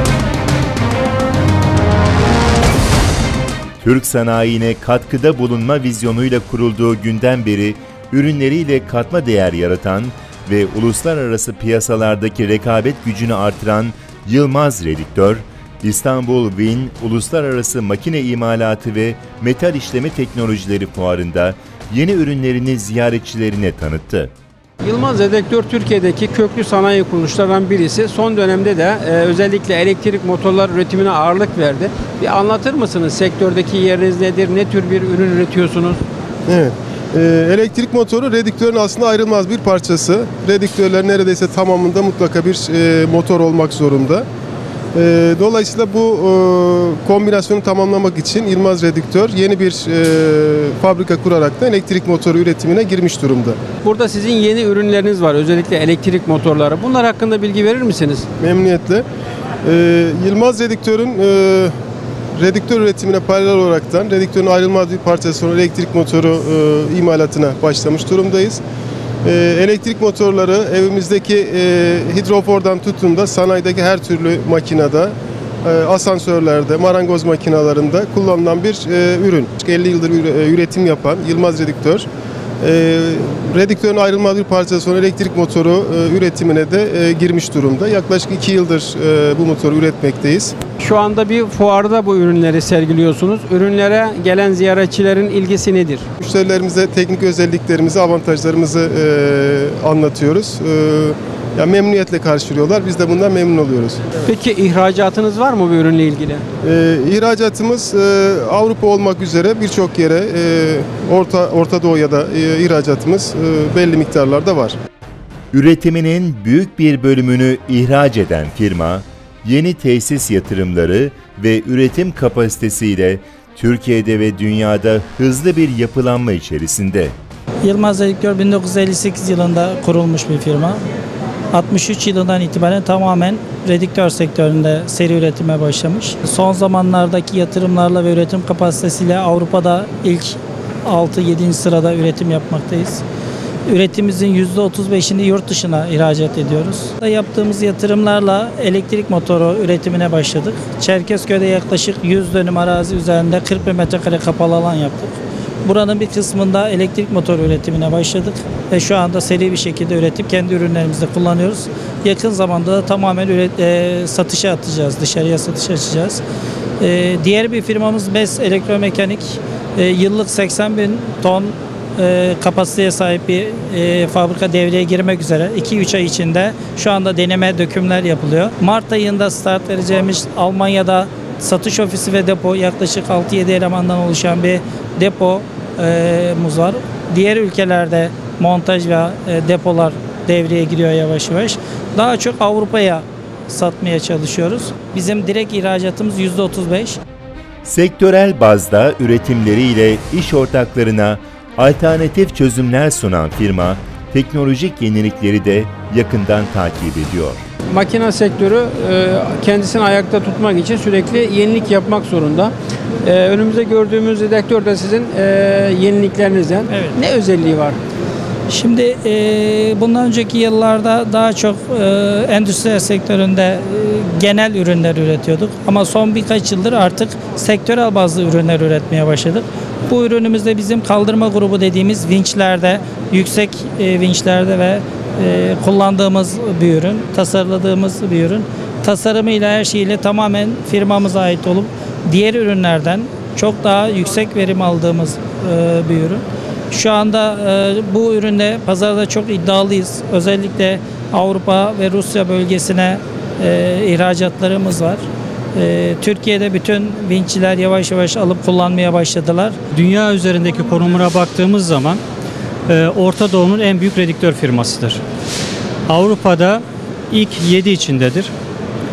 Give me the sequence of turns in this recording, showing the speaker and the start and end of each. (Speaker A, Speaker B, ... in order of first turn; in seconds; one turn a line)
Speaker A: 3.8-24.3
Speaker B: 24.8-36.0
Speaker C: 36.5-44.2
Speaker C: 44.9-53.6
Speaker B: 53.8-58.3
Speaker C: 58.4-59.0
Speaker C: 59.6-61.7
Speaker C: 62.4-68.6
Speaker C: 69.2-82.0
Speaker C: 82.6-90.5
Speaker B: 90.8-96.0
Speaker C: 96.2-104.1
Speaker B: 104.2-106.4
Speaker C: 106.6-114.8
Speaker A: 115.5-127.1
Speaker D: 127.6-130.8
Speaker D: 131.5-143.0
Speaker D: 143.7-166.2
Speaker D: 166.8-197.0
Speaker A: 197.6-207.4
Speaker B: 207.7-212.5
Speaker B: 213.0-217.8
Speaker D: 218.5-255.0
Speaker D: 255.5-259.6
Speaker E: 259.7-262.0
Speaker E: 262.7-265.0
Speaker E: 265.9-268.3